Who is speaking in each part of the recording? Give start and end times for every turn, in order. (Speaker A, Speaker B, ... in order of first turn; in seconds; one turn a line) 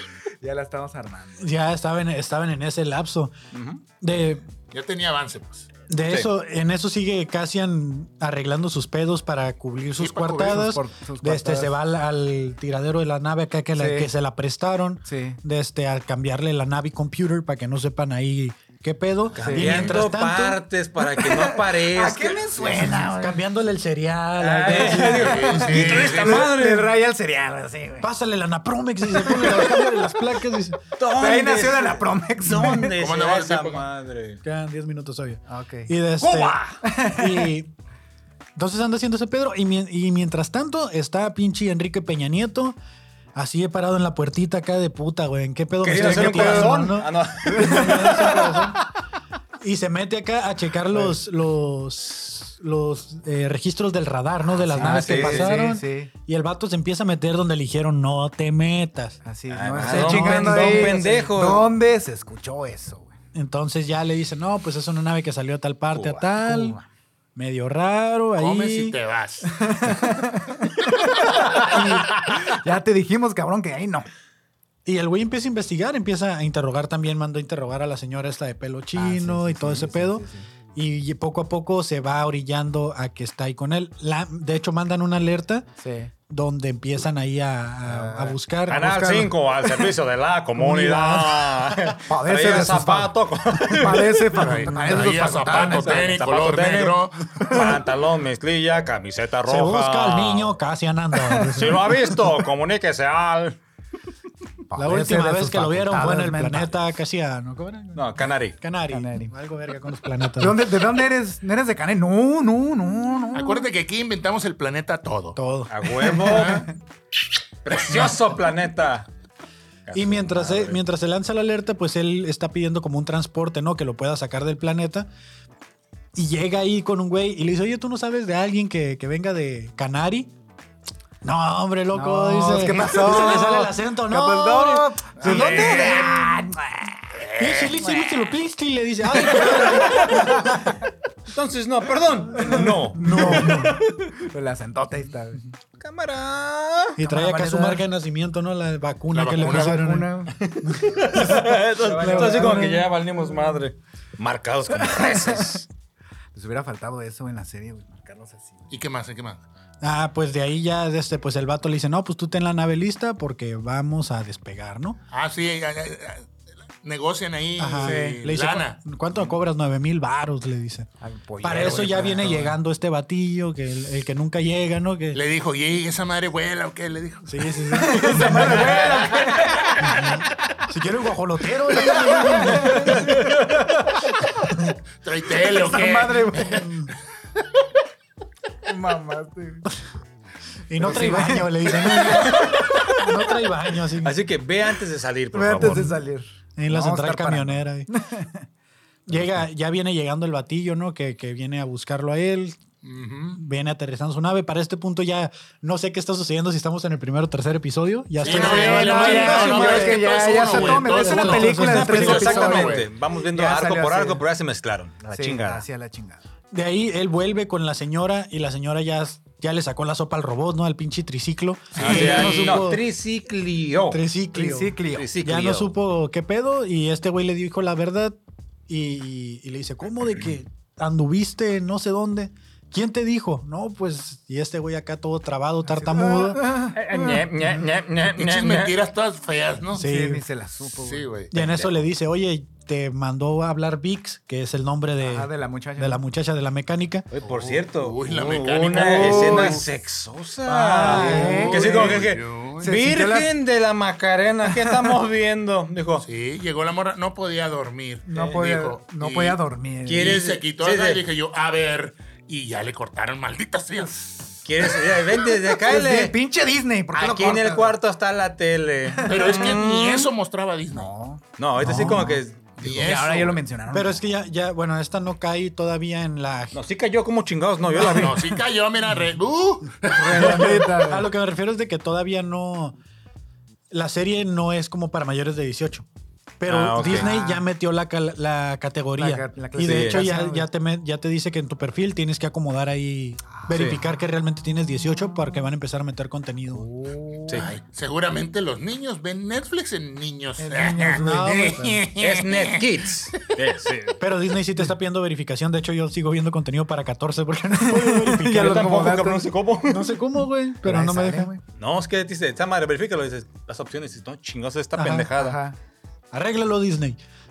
Speaker A: 0.4-1.5
Speaker B: 1.4-3.3
Speaker C: 3.5-3.8
Speaker B: 4.0-4.4
Speaker D: 4.7-5.7
Speaker B: 5.9-20.6
Speaker D: 10.0-10.6
Speaker A: 10.5-11.7
Speaker A: 13.8-14.1
Speaker A: 15.0-15.4
Speaker C: 19.3-23.0
Speaker A: 19.4-19.9
Speaker A: 21.1-23.4
Speaker B: 22.8-25.8
Speaker A: 24.4-28.1
Speaker C: 24.6-26.9
Speaker D: 25.1-26.5
Speaker B: 28.0-30.8
Speaker A: 29.1-30.1
Speaker C: 31.0-34.4
Speaker A: 31.1-33.0
Speaker D: 33.0-33.9
Speaker B: 34.4-37.7
Speaker A: 35.5-35.9
Speaker C: 36.2-36.8
Speaker A: 36.8-37.5
Speaker B: 38.5-42.8
Speaker B: 43.4-48.8
Speaker C: 45.8-48.8
Speaker A: 45.9-48.4
Speaker B: 49.6-59.2
Speaker A: 54.5-56.1
Speaker C: 54.7-55.6
Speaker A: 59.2-63.1
Speaker C: 59.5-61.7
Speaker B: 59.8-61.0
Speaker B: 63.3-66.8
Speaker A: 66.0-66.8
Speaker B: 67.3-69.0
Speaker D: 68.4-69.5
Speaker A: 69.5-74.1
Speaker B: 71.7-72.0
Speaker B: 74.8-85.7
Speaker A: 79.0-80.5
Speaker A: 85.8-86.1
Speaker B: 86.3-88.9
Speaker A: 87.8-89.9
Speaker C: 88.7-94.5
Speaker B: 90.6-91.7
Speaker A: 90.7-91.3
Speaker A: 92.1-96.2
Speaker D: 94.3-97.7
Speaker C: 95.4-100.5
Speaker B: 99.5-102.1
Speaker A: 101.2-101.8
Speaker C: 101.5-103.6
Speaker A: 104.7-106.7
Speaker B: 104.8-110.6
Speaker C: 107.9-108.6
Speaker A: 108.9-109.3
Speaker A: 110.4-113.7
Speaker D: 113.3-115.4
Speaker B: 115.3-115.7
Speaker C: 115.7-116.7
Speaker A: 116.0-116.7
Speaker D: 116.3-116.7
Speaker C: 117.6-119.1
Speaker C: 119.9-120.8
Speaker B: 119.9-125.1
Speaker B: 126.1-130.3
Speaker B: 131.2-135.3
Speaker A: 131.9-137.0
Speaker D: 135.2-136.2
Speaker C: 135.2-136.2
Speaker D: 137.2-137.8
Speaker B: 137.4-140.8
Speaker C: 139.2-140.6
Speaker C: 141.3-144.0
Speaker A: 142.4-145.4
Speaker B: 142.9-143.8
Speaker C: 145.8-147.0
Speaker B: 147.0-150.1
Speaker A: 147.0-147.8
Speaker D: 149.1-149.8
Speaker A: 149.4-150.4
Speaker C: 150.3-155.7
Speaker B: 150.6-152.8
Speaker A: 151.4-152.8
Speaker A: 156.3-158.7
Speaker D: 158.7-159.4
Speaker B: 159.8-165.0
Speaker D: 165.1-166.3
Speaker D: 166.8-168.8
Speaker B: 167.6-170.9
Speaker A: 167.8-168.2
Speaker A: 171.0-172.6
Speaker B: 171.4-175.2
Speaker D: 175.1-177.5
Speaker B: 177.2-178.6
Speaker A: 177.7-179.9
Speaker C: 177.9-179.7
Speaker D: 179.4-179.8
Speaker B: 179.8-183.2
Speaker A: 181.9-183.1
Speaker C: 182.7-183.8
Speaker D: 185.0-186.7
Speaker A: 185.3-186.7
Speaker B: 186.5-186.9
Speaker A: 188.6-189.6
Speaker B: 190.7-194.2
Speaker A: 190.8-193.3
Speaker C: 192.2-192.9
Speaker C: 194.0-196.0
Speaker A: 195.3-198.4
Speaker B: 195.6-195.9
Speaker B: 196.6-197.9
Speaker B: 199.1-202.6
Speaker D: 202.8-203.4
Speaker B: 203.3-209.8
Speaker D: 208.2-212.8
Speaker A: 208.2-214.2
Speaker C: 208.3-215.7
Speaker B: 210.5-212.6
Speaker A: 215.0-216.2
Speaker B: 216.5-222.8
Speaker D: 221.7-222.5
Speaker C: 221.8-224.0
Speaker A: 221.8-222.7
Speaker B: 223.9-228.2
Speaker A: 224.3-225.1
Speaker C: 224.9-225.7
Speaker B: 228.7-236.5
Speaker A: 235.7-237.3
Speaker C: 236.7-238.7
Speaker D: 238.1-239.8
Speaker B: 239.7-240.2
Speaker A: 239.8-241.7
Speaker D: 240.8-241.3
Speaker B: 241.3-247.1
Speaker A: 245.0-246.0
Speaker C: 247.1-256.0
Speaker D: 247.3-249.6
Speaker A: 248.6-249.6
Speaker A: 250.4-253.3
Speaker B: 250.8-251.6
Speaker D: 251.4-252.7
Speaker A: 254.4-254.9
Speaker D: 256.0-259.4
Speaker A: 258.1-260.2
Speaker C: 259.9-261.0
Speaker D: 259.9-264.3
Speaker C: 264.4-266.1
Speaker A: 265.3-267.8
Speaker C: 266.9-270.1
Speaker A: 268.9-269.6
Speaker D: 269.1-270.9
Speaker A: 270.7-274.0
Speaker C: 271.4-272.6
Speaker B: 271.6-272.1
Speaker D: 272.6-273.4
Speaker B: 273.7-276.6
Speaker C: 276.5-278.3
Speaker D: 277.8-280.6
Speaker B: 277.8-278.1
Speaker A: 279.9-281.1
Speaker B: 280.1-282.8
Speaker B: 283.7-285.9
Speaker B: 286.4-296.7
Speaker C: 286.5-287.1
Speaker A: 286.8-287.4
Speaker A: 289.0-290.5
Speaker C: 289.6-290.1
Speaker A: 293.4-293.8
Speaker A: 296.5-297.5
Speaker D: 297.3-302.7
Speaker A: 300.4-301.2
Speaker B: 300.6-301.8
Speaker C: 302.0-304.0
Speaker B: 304.0-308.9
Speaker A: 307.5-309.3
Speaker C: 308.3-309.9
Speaker B: 309.6-311.3
Speaker A: 310.6-311.4
Speaker C: 311.6-315.4
Speaker B: 314.8-315.1
Speaker A: 315.1-315.6
Speaker B: 316.1-317.0